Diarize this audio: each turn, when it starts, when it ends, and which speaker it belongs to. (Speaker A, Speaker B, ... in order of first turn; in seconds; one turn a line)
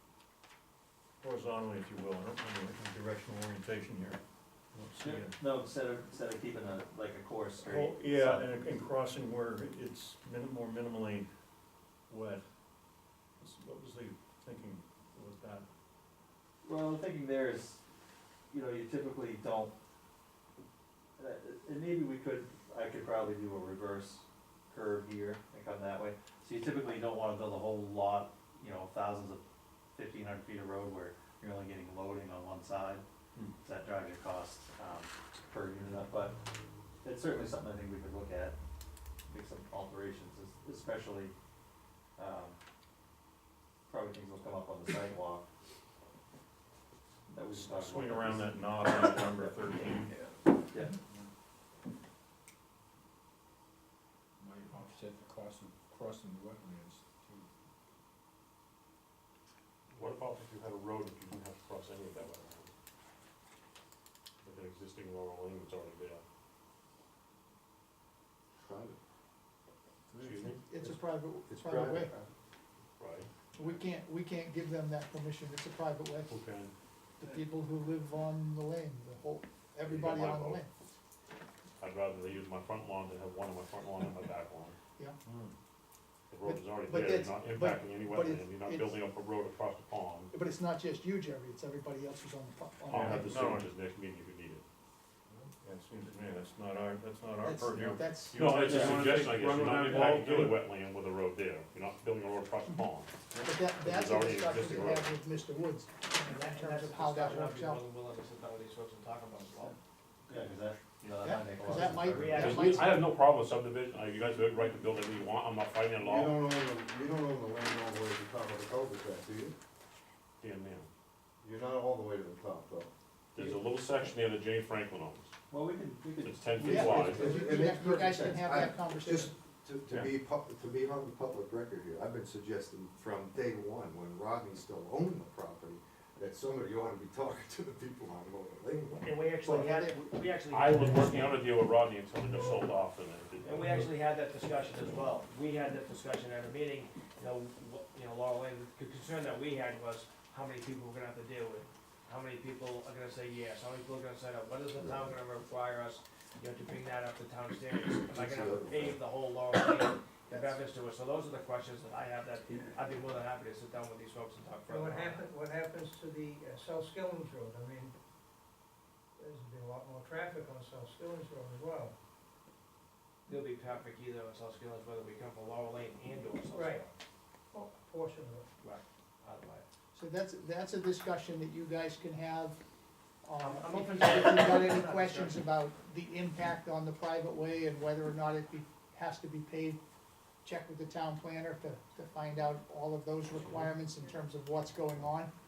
Speaker A: 1.2-4.2
Speaker A: 4.7-5.4
Speaker B: 5.0-8.5
Speaker A: 7.6-11.3
Speaker A: 12.1-12.5
Speaker A: 13.4-15.7
Speaker B: 16.6-17.8
Speaker B: 18.5-19.7
Speaker B: 21.2-29.4
Speaker B: 29.9-33.0
Speaker B: 33.6-36.4
Speaker B: 37.0-38.5
Speaker B: 39.3-41.3
Speaker B: 42.2-42.5
Speaker B: 43.9-45.5
Speaker B: 47.3-50.0
Speaker A: 47.5-50.1
Speaker B: 50.7-51.0
Speaker C: 54.4-57.5
Speaker D: 59.9-62.7
Speaker D: 64.4-66.2
Speaker E: 68.6-69.0
Speaker D: 70.2-70.6
Speaker F: 70.6-72.1
Speaker E: 71.5-72.2
Speaker D: 73.0-73.4
Speaker F: 73.5-76.4
Speaker D: 76.3-76.7
Speaker F: 77.2-80.7
Speaker D: 79.8-80.6
Speaker D: 81.8-84.8
Speaker A: 85.2-85.5
Speaker D: 86.3-90.3
Speaker F: 86.4-89.0
Speaker F: 90.3-93.2
Speaker D: 92.9-94.6
Speaker A: 92.9-93.7
Speaker A: 95.6-100.6
Speaker F: 97.4-98.5
Speaker D: 98.3-103.2
Speaker B: 98.6-99.0
Speaker F: 103.4-107.8
Speaker D: 103.8-105.0
Speaker G: 106.2-109.8
Speaker B: 110.3-112.5
Speaker F: 111.2-113.0
Speaker G: 112.1-112.9
Speaker D: 112.2-116.4
Speaker E: 116.0-119.5
Speaker D: 120.4-120.9
Speaker E: 121.4-122.9
Speaker D: 123.3-125.3
Speaker B: 125.5-127.4
Speaker D: 126.2-127.2
Speaker F: 126.6-129.3
Speaker E: 126.9-139.2
Speaker G: 139.0-141.4
Speaker F: 139.4-139.9
Speaker D: 140.5-143.9
Speaker G: 143.4-165.3
Speaker E: 154.7-155.2
Speaker E: 158.1-159.0
Speaker H: 164.7-167.9
Speaker H: 169.2-171.9
Speaker G: 173.2-176.9
Speaker H: 176.5-176.8
Speaker H: 177.5-178.5
Speaker G: 178.6-179.6
Speaker F: 179.9-182.6
Speaker F: 183.2-189.8
Speaker G: 183.4-185.4
Speaker F: 190.4-195.3